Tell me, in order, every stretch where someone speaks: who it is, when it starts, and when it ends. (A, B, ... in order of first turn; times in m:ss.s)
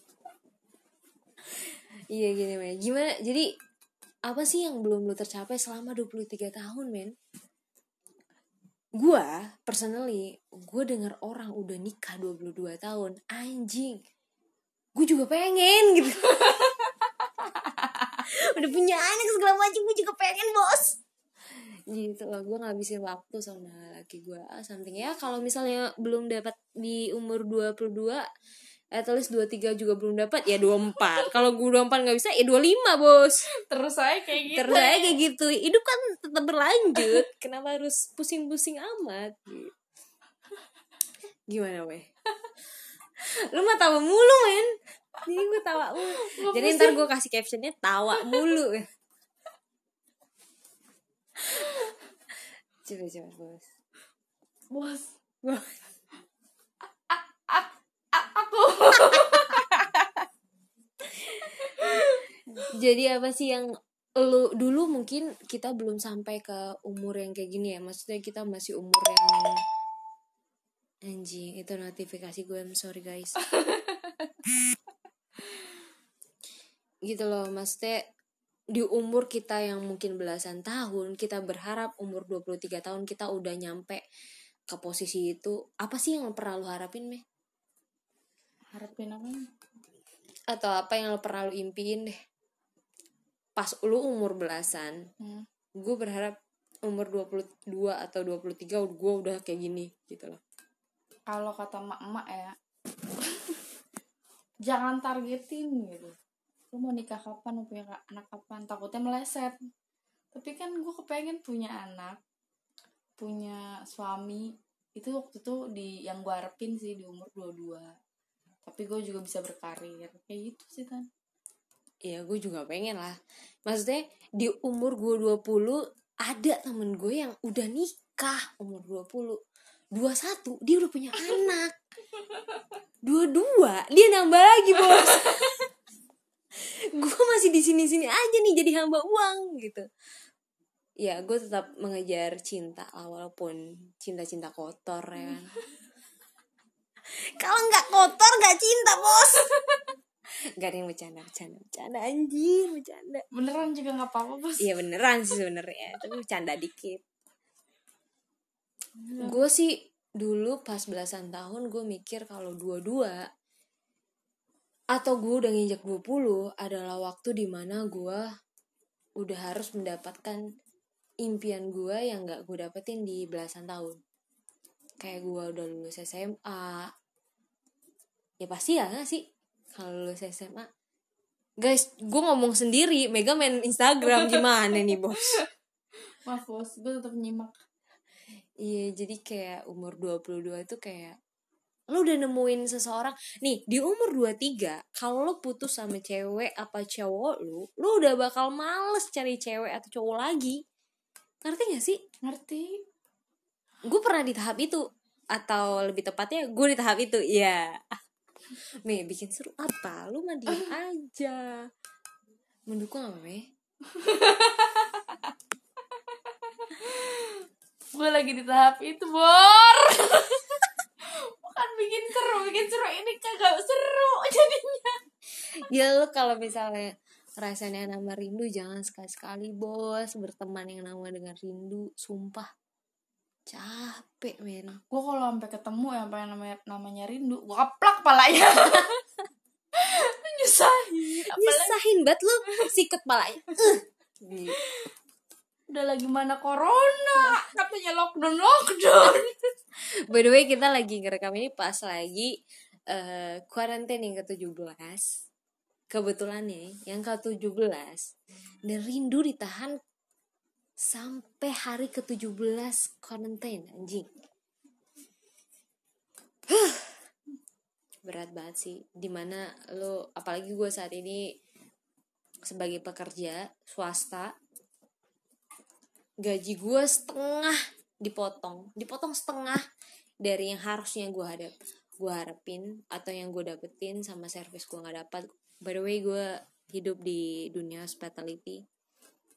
0:01.6-0:03.5 A
0:04.3-0:07.1 A
0:09.0-0:14.0 A
0:15.0-0:16.7 A
0:17.6-0:18.1 B
0:18.2-0:21.0 A
0:21.9-0:28.2 A
0:29.0-0:33.5 A
0:33.6-0:35.2 B
0:34.5-0:39.7 A
0:41.5-0:42.1 A
0:43.2-0:48.9 A
0:46.2-0:47.0 B
0:52.8-0:53.7 A
0:54.7-0:55.1 B
0:55.4-0:55.8 A
0:57.1-1:00.2 B
1:01.1-1:09.6 A
1:01.6-1:02.2 B
1:11.1-1:13.4 A
1:13.5-1:14.2 B
1:17.1-1:18.1 A
1:18.7-1:24.0 A
1:24.7-1:27.2 A
1:28.7-1:29.5 B
1:30.5-1:32.2 A
1:33.6-1:35.1 A
1:35.2-1:35.5 B
1:35.8-1:40.4 A
1:41.3-1:42.6 B
1:43.2-1:43.6 B
1:44.6-1:46.2 B
1:46.7-1:49.6 B
1:50.3-1:52.2 B
1:53.2-1:58.0 B
1:58.6-2:01.1 B
2:02.0-2:09.4 A
2:10.0-2:11.8 A
2:13.1-2:15.7 A
2:16.6-2:19.9 A
2:21.0-2:25.6 A
2:27.1-2:29.5 A
2:30.6-2:33.2 A
2:33.3-2:34.7 B
2:34.6-2:37.0 A
2:39.0-2:39.4 B
2:39.2-2:43.2 A
2:44.9-2:48.2 A
2:49.2-2:50.4 A
2:51.2-2:54.0 A
2:55.0-2:56.9 A
2:58.4-2:59.2 A
2:59.8-3:00.7 A
3:01.6-3:05.4 A
3:06.2-3:07.6 B
3:08.6-3:11.2 A
3:11.9-3:20.6 A
3:21.4-3:22.0 A
3:22.2-3:22.8 B
3:23.9-3:28.0 A
3:28.8-3:31.7 A
3:32.7-3:33.5 A
3:33.9-3:35.3 B
3:36.1-3:45.0 B
3:45.6-3:52.5 A
3:53.5-3:54.8 A
3:54.9-3:59.0 B
3:59.7-4:01.8 B
4:01.2-4:04.6 A
4:05.7-4:09.5 B
4:09.8-4:12.3 A
4:12.9-4:15.2 A
4:15.9-4:18.1 A
4:18.7-4:19.8 A
4:20.9-4:24.1 A
4:26.5-4:27.0 A
4:28.0-4:31.3 A
4:32.5-4:34.3 A
4:36.2-4:39.6 A
4:40.2-4:48.6 A